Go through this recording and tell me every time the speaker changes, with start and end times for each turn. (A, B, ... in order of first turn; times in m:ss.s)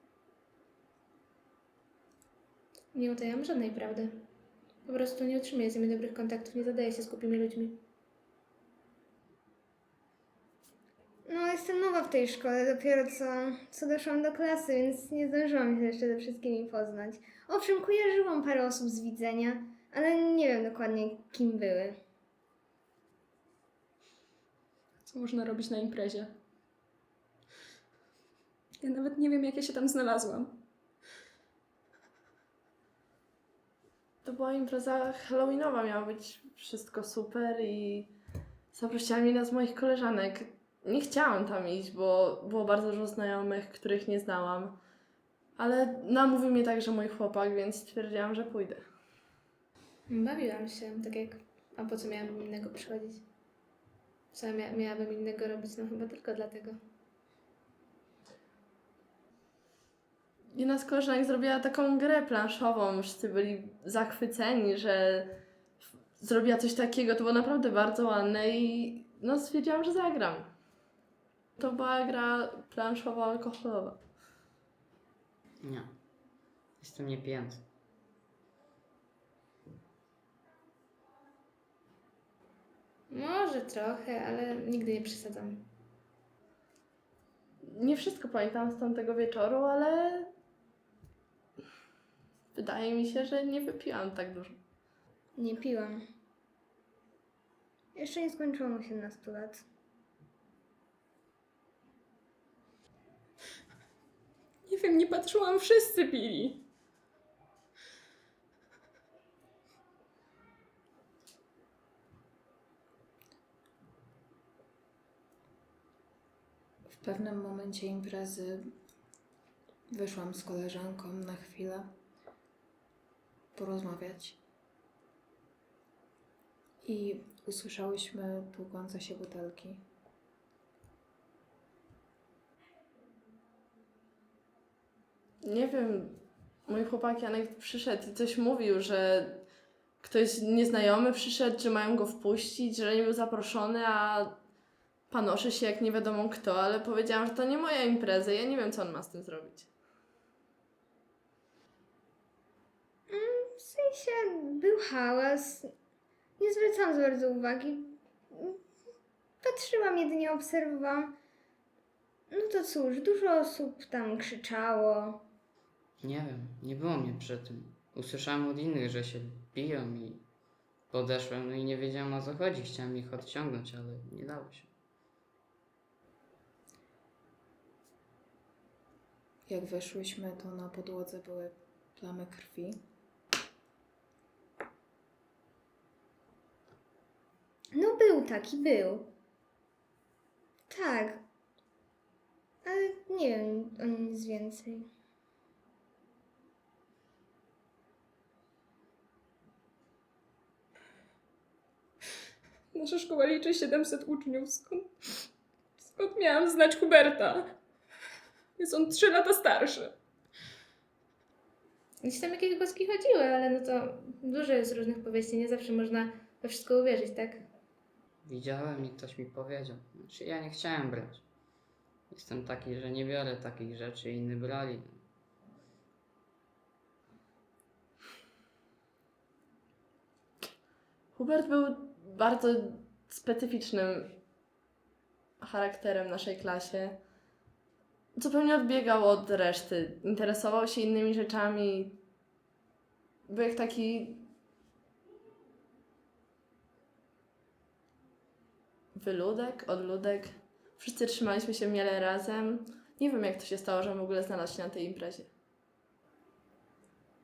0:02.9-0:04.2 A
0:04.8-0:07.8 A
0:11.2-0:22.0 B
0:25.1-0:26.4 C
0:28.8-0:30.6 C
0:34.2-0:38.1 D
0:38.7-0:44.8 D
0:45.6-0:48.8 D
0:50.1-0:53.2 A
0:54.3-0:56.8 A
1:00.5-1:05.4 D
1:06.2-1:10.5 D
1:11.6-1:14.0 D
1:15.6-1:15.9 E
1:16.8-1:17.6 E
1:23.1-1:25.7 A
1:27.6-1:30.3 D
1:32.5-1:34.6 D
1:35.4-1:36.0 B
1:37.9-1:39.6 B
1:44.6-1:46.6 C
1:56.9-1:58.7 F
1:59.9-2:01.9 F
2:03.5-2:04.4 F
2:06.8-2:09.8 F
2:15.4-2:19.5 D
2:20.0-2:24.4 D
2:25.1-2:29.7 D
2:33.1-2:35.7 B
2:36.4-2:38.6 B
2:39.4-2:41.1 B
2:42.3-2:45.2 B
2:46.0-2:50.2 E
2:50.9-2:54.7 E
2:59.5-3:02.8 F
3:07.7-3:09.1 B
3:10.7-3:11.2 B
3:12.6-3:14.9 B
3:22.7-3:25.3 C
3:25.8-3:27.6 C
3:28.6-3:30.0 C
3:32.0-3:37.4 A
3:38.2-3:41.2 E
3:42.1-3:45.0 E
3:51.1-3:54.2 D
3:55.4-3:57.0 D
3:58.1-4:02.0 D
4:03.3-4:04.3 D
4:08.9-4:15.3 D